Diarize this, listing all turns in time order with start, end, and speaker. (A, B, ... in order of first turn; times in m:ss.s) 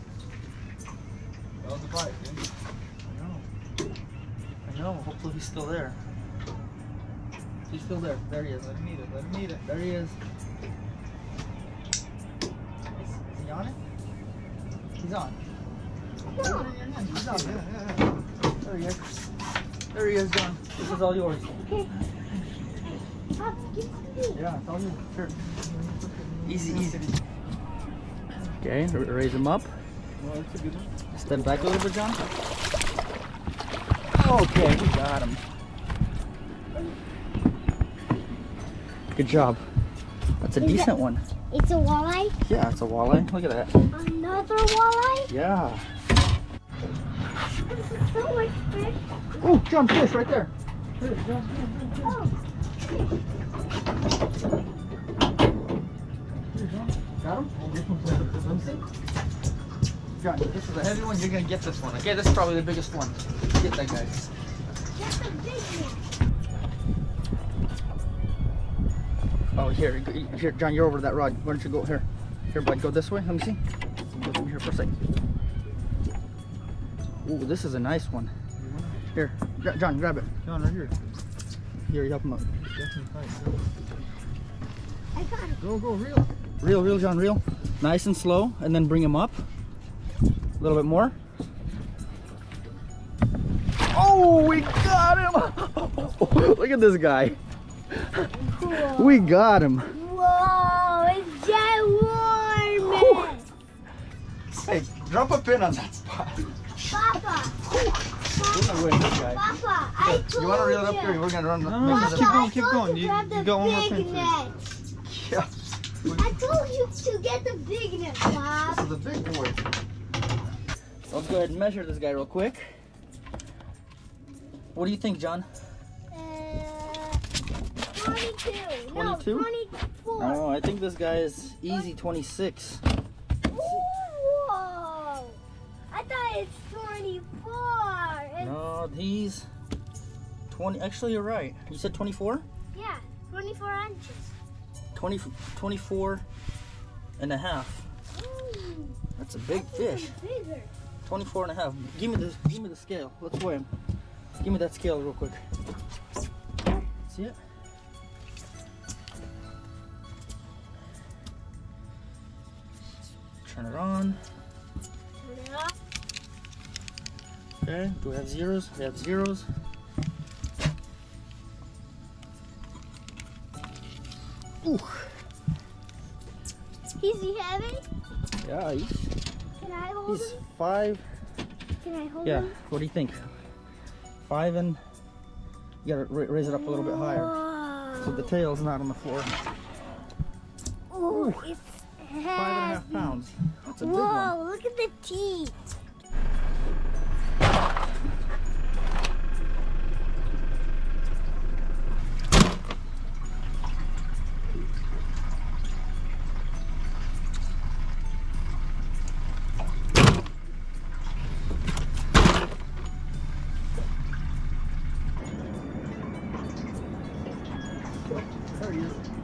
0:01.6-0:02.4 A
0:03.0-0:03.5 A
0:04.6-0:06.0 B
0:07.7-0:08.6 B
0:08.5-0:09.7 A
0:09.6-0:10.2 B
0:13.2-0:13.8 B
0:15.0-0:15.4 B
0:16.3-0:16.9 C
0:16.4-0:18.2 A
0:17.1-0:17.6 B
0:18.6-0:19.0 B
0:19.9-0:21.6 B
0:21.5-0:21.9 C
0:23.4-0:24.4 C
0:24.3-0:25.4 B
0:25.6-0:27.2 A
0:26.5-0:27.1 B
0:28.5-0:29.7 B
0:30.2-0:31.8 A
0:31.1-0:32.2 B
0:34.1-0:35.4 B
0:39.1-0:39.6 B
0:40.4-0:41.2 B
0:40.6-0:40.9 C
0:41.5-0:42.4 C
0:42.4-0:43.7 B
0:43.9-0:45.3 C
0:45.3-0:45.9 B
0:47.7-0:49.0 C
0:49.4-0:52.2 B
0:52.0-0:52.3 C
0:56.5-0:57.6 B
0:57.5-0:58.8 A
0:58.2-0:58.8 B
1:00.2-1:04.2 B
1:04.9-1:06.0 C
1:09.5-1:13.6 B
1:14.1-1:15.0 B
1:17.2-1:18.3 B
1:18.6-1:19.0 A
1:19.1-1:20.3 B
1:20.4-1:21.0 A
1:21.9-1:22.5 B
1:22.5-1:23.7 A
1:25.1-1:25.6 C
1:25.6-1:26.3 A
1:26.6-1:29.4 B
1:30.6-1:31.2 B
1:33.9-1:37.4 B
1:37.9-1:39.9 B
1:38.4-1:43.5 C
1:42.8-1:43.3 B
1:44.5-1:46.5 B
1:46.8-1:47.6 C
1:47.7-1:49.4 B
1:48.3-1:51.2 C
1:50.0-1:52.5 B
1:51.6-1:54.4 A
1:51.8-1:54.6 C
1:55.1-1:55.5 B
1:56.0-1:56.4 A
1:56.1-1:58.9 C
1:58.7-1:59.6 A
2:01.1-2:02.8 B
2:04.7-2:05.5 B
2:06.1-2:07.2 C
2:07.9-2:10.4 C
2:08.9-2:09.5 B
2:10.2-2:12.8 B
2:13.5-2:15.4 C
2:15.9-2:18.6 C
2:18.4-2:19.5 B
2:20.5-2:22.4 B
2:22.7-2:24.4 C
2:24.9-2:26.2 B
2:27.2-2:27.9 B
2:28.1-2:29.0 C
2:29.2-2:30.2 B
2:29.5-2:30.7 C
2:31.0-2:33.7 B
2:34.4-2:35.4 B
2:37.1-2:37.4 B
2:43.4-2:44.2 B
2:45.2-2:45.7 C
2:47.6-2:49.5 B
2:54.6-2:55.1 B
2:57.0-2:57.8 C
2:58.4-2:59.1 B
2:59.6-3:00.4 C
3:00.1-3:01.1 B
3:01.8-3:02.6 C
3:02.2-3:03.2 B
3:04.2-3:04.8 B
3:05.8-3:07.3 B
3:06.5-3:08.3 C
3:08.0-3:09.4 B
3:10.9-3:13.2 C
3:11.1-3:11.5 B
3:12.3-3:14.4 B
3:13.8-3:15.6 C
3:38.5-3:39.0 B